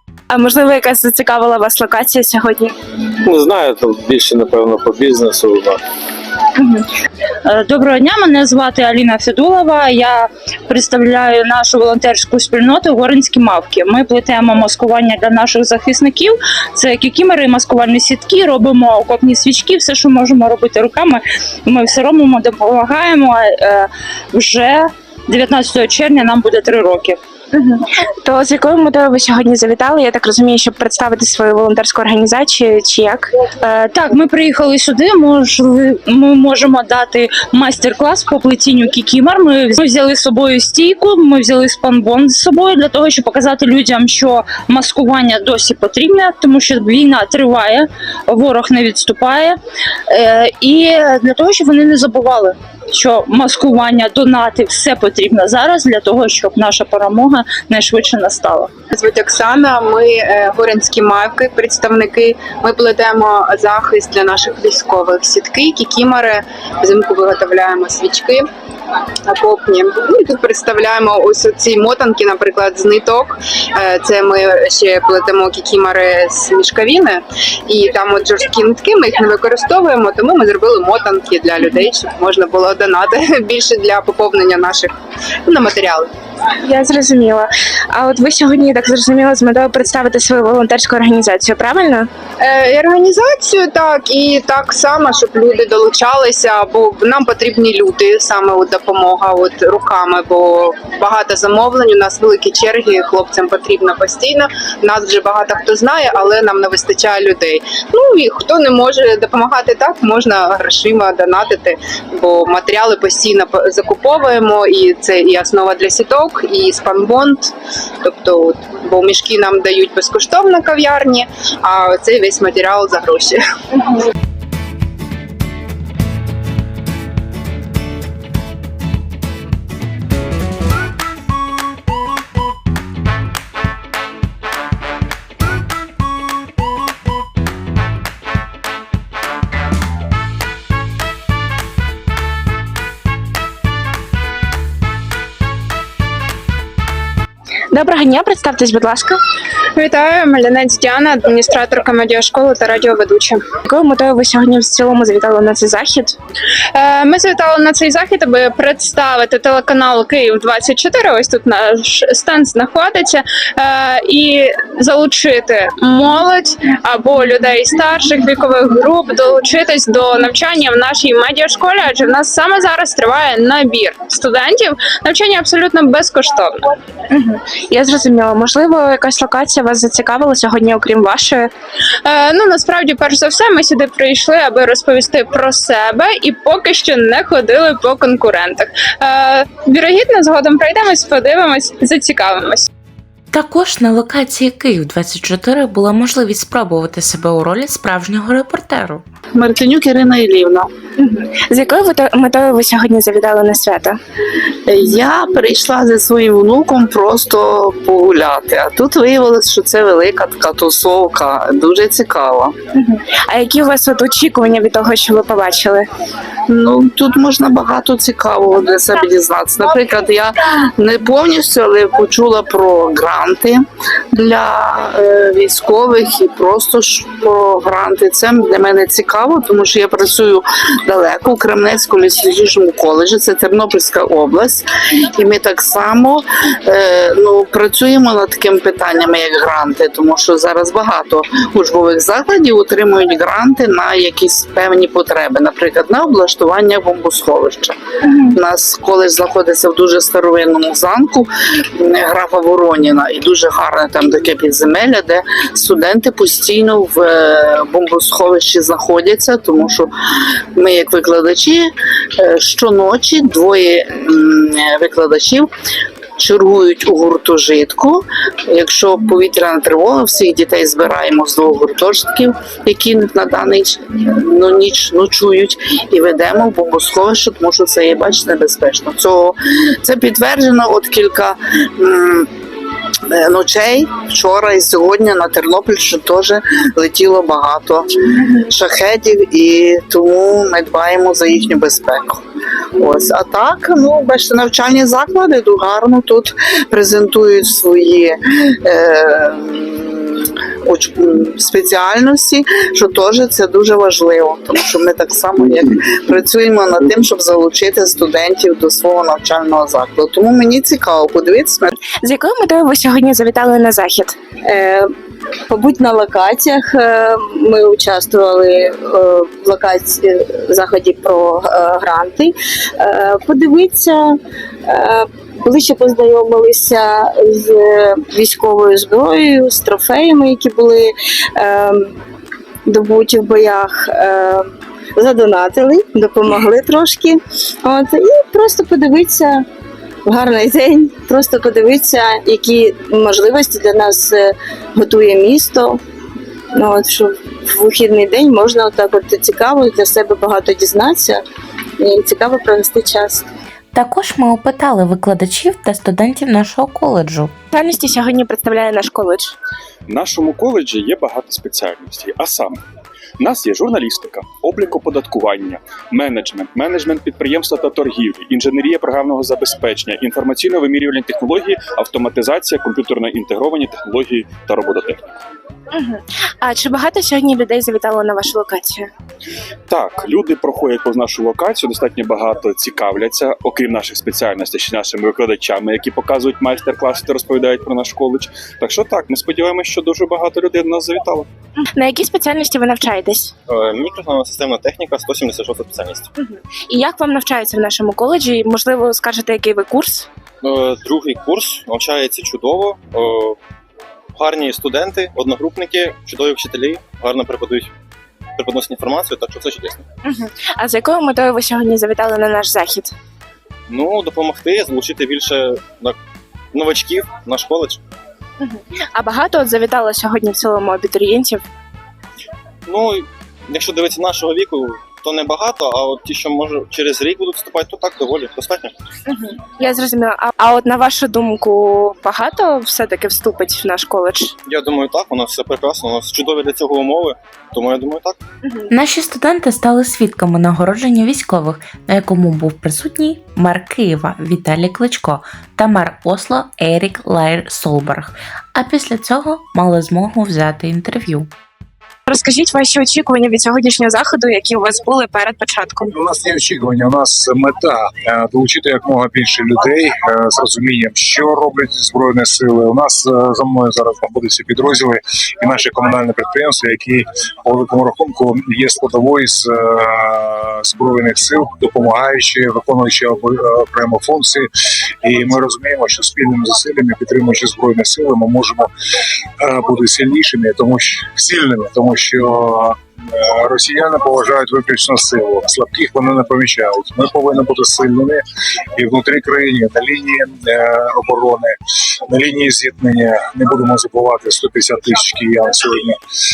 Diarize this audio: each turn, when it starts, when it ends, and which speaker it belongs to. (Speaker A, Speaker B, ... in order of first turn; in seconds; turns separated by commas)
Speaker A: 0.3-2.7, Speaker B: 3.2-5.8, Speaker C: 6.6-6.9, Speaker C: 7.5-27.2, Speaker A: 27.5-33.3, Speaker C: 33.6-49.6, Speaker C: 50.1-58.7, Speaker D: 58.9-68.5, Speaker D: 69.3-84.9, Speaker D: 85.5-86.1, Speaker A: 86.6-92.1, Speaker D: 92.4-117.5, Speaker D: 118.0-124.0, Speaker A: 147.7-149.2, Speaker D: 149.8-153.4, Speaker A: 153.7-156.2, Speaker D: 156.8-176.6, Speaker A: 177.1-181.5, Speaker D: 182.1-192.7, Speaker E: 193.3-199.0, Speaker F: 199.3-200.7, Speaker A: 201.0-204.0, Speaker F: 204.7-212.6, Speaker A: 212.8-215.9, Speaker F: 216.5-223.6, Speaker F: 224.1-259.9, Speaker F: 260.6-265.5, Speaker F: 266.2-282.3, Speaker F: 283.1-292.2, Speaker F: 292.8-311.7, Speaker A: 312.0-314.2, Speaker G: 314.4-314.9, Speaker G: 315.5-331.9, Speaker G: 332.7-339.4, Speaker G: 340.1-345.8, Speaker G: 346.5-351.2, Speaker G: 351.8-353.3, Speaker E: 353.7-357.4, Speaker A: 357.5-359.4, Speaker H: 359.9-362.6, Speaker H: 363.2-375.0, Speaker A: 375.7-378.9, Speaker H: 379.7-391.3, Speaker A: 391.6-393.3, Speaker I: 393.5-396.1, Speaker A: 396.2-400.1, Speaker I: 400.4-403.4, Speaker I: 404.2-407.7, Speaker I: 408.4-409.9, Speaker A: 410.1-412.9, Speaker I: 413.7-416.0, Speaker I: 416.5-417.8, Speaker A: 418.4-421.4, Speaker I: 422.7-428.8, Speaker A: 429.1-434.3, Speaker I: 434.5-438.2, Speaker A: 438.4-438.7, Speaker E: 438.7-451.3, Speaker A: 452.1-455.9, Speaker J: 455.9-478.7, Speaker J: 479.4-488.2, Speaker J: 488.8-496.0